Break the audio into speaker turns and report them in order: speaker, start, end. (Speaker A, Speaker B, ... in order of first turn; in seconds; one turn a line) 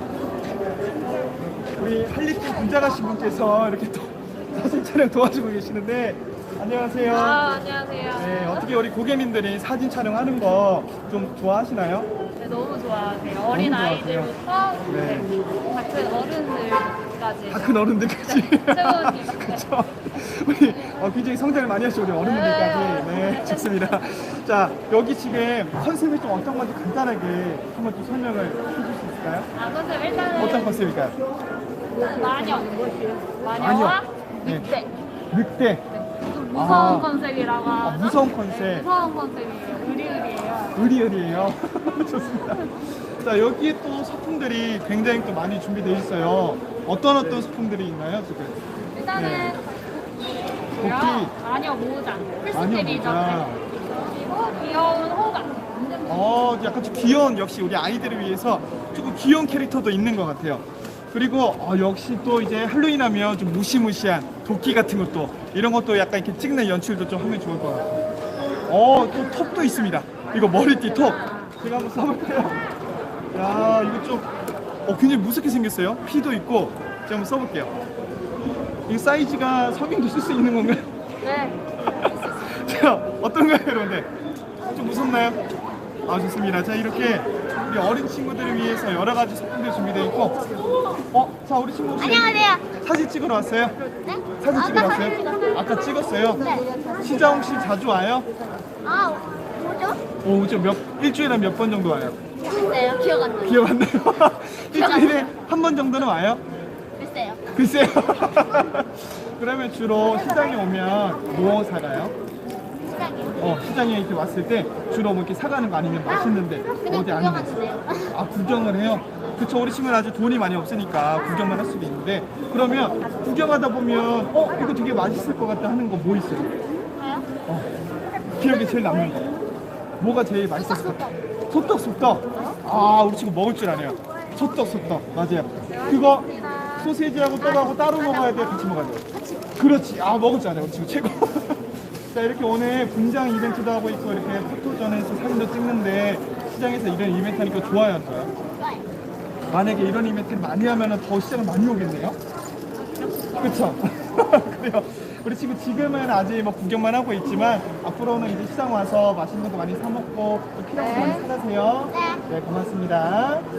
Speaker A: 1.8-7.4
Speaker B: 7.1-8.7
Speaker A: 8.1-12.1
Speaker B: 12.4-19.6
Speaker A: 13.5-14.3
Speaker A: 14.9-15.3
Speaker A: 17.5-29.5
Speaker B: 22.2-24.2
Speaker B: 29.5-30.7
Speaker A: 30.3-31.1
Speaker B: 31.9-34.9
Speaker A: 33.6-34.7
Speaker A: 35.3-35.8
Speaker B: 35.9-40.8
Speaker A: 36.5-37.1
Speaker A: 37.8-38.9
Speaker A: 40.7-48.6
Speaker B: 48.9-50.1
Speaker A: 49.1-49.6
Speaker B: 50.7-56.1
Speaker A: 50.8-51.3
Speaker A: 52.5-53.6
Speaker A: 56.0-67.9
Speaker A: 68.7-72.6
Speaker A: 73.3-74.3
Speaker A: 74.8-77.7
Speaker A: 78.9-80.9
Speaker B: 81.2-81.6
Speaker A: 81.8-84.1
Speaker A: 84.7-85.4
Speaker A: 86.0-90.4
Speaker A: 91.1-93.8
Speaker C: 92.0-92.6
Speaker C: 94.0-95.6
Speaker A: 94.4-98.3
Speaker C: 96.4-96.7
Speaker C: 98.8-100.0
Speaker A: 100.2-102.2
Speaker C: 102.4-103.7
Speaker A: 103.4-106.4
Speaker C: 104.7-105.3
Speaker C: 107.0-107.5
Speaker A: 107.5-112.1
Speaker C: 112.8-113.5
Speaker A: 113.4-117.6
Speaker C: 116.1-118.1
Speaker A: 118.1-126.5
Speaker C: 126.9-127.2
Speaker A: 128.3-129.3
Speaker A: 130.0-139.0
Speaker C: 130.6-131.1
Speaker B: 135.7-136.9
Speaker C: 137.4-139.5
Speaker A: 139.6-148.3
Speaker C: 148.6-148.8
Speaker A: 149.5-152.2
Speaker A: 153.4-163.5
Speaker C: 161.9-162.2